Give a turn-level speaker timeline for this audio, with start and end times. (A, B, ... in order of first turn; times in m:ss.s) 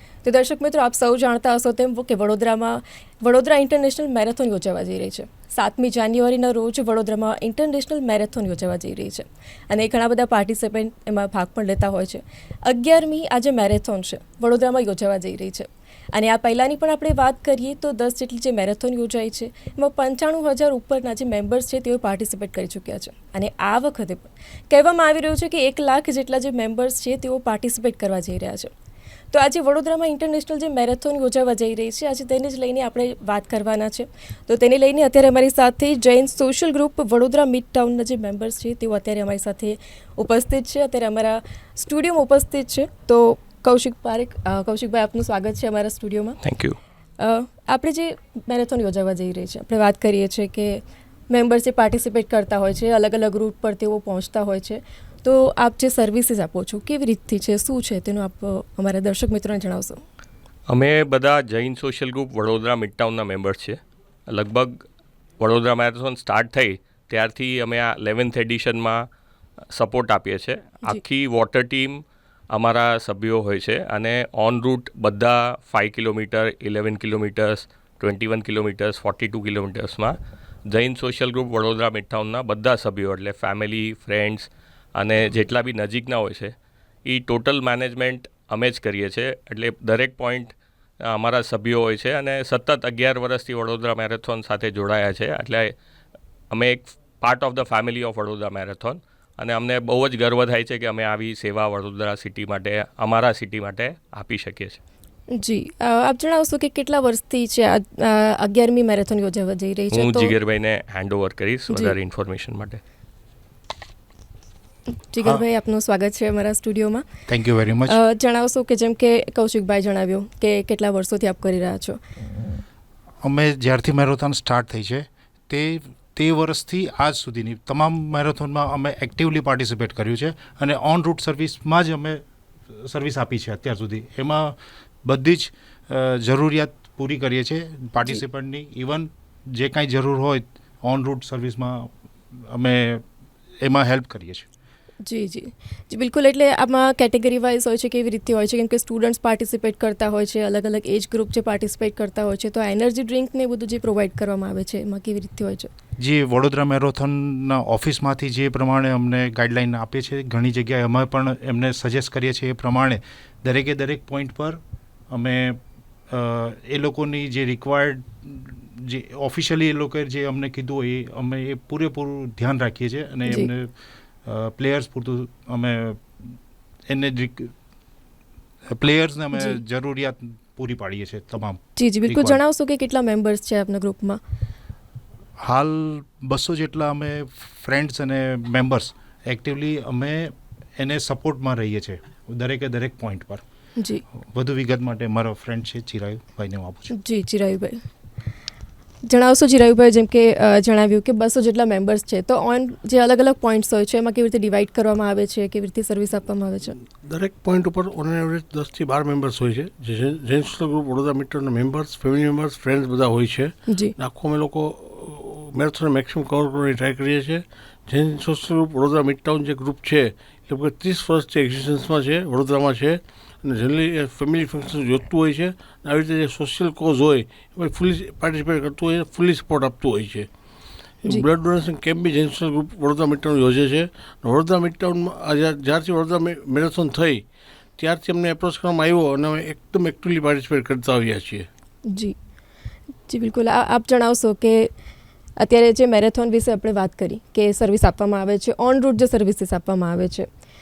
0:00.2-0:28.7 A
0:29.3-0:46.4 A
0:46.4-0:46.8 B
0:47.2-1:00.0 A
1:00.7-1:04.8 B
1:05.4-1:09.0 B
1:09.7-1:20.1 B
1:20.7-1:26.5 B
1:27.1-1:30.5 B
1:31.1-1:35.7 B
1:36.5-1:44.8 B
1:45.3-1:50.3 A
1:49.9-1:52.8 B
1:54.9-1:57.0 A
1:57.3-1:58.0 C
1:57.9-2:02.0 A
2:03.2-2:23.0 C
2:23.6-2:24.4 C
2:25.0-2:35.7 A
2:36.0-2:44.6 C
2:45.1-2:56.4 C
2:56.9-2:57.5 C
2:58.7-3:02.4 C
2:59.3-2:59.6 A
3:01.8-3:04.2 A
3:05.4-3:13.4 C
3:13.8-3:14.0 A
3:14.2-3:16.9 C
3:16.9-3:17.8 A
3:19.0-3:26.7 A
3:27.0-3:50.3 D
3:33.7-3:33.9 A
3:51.0-4:01.5 D
4:01.9-4:02.1 A
4:03.1-4:04.7 A
4:05.4-4:10.3 A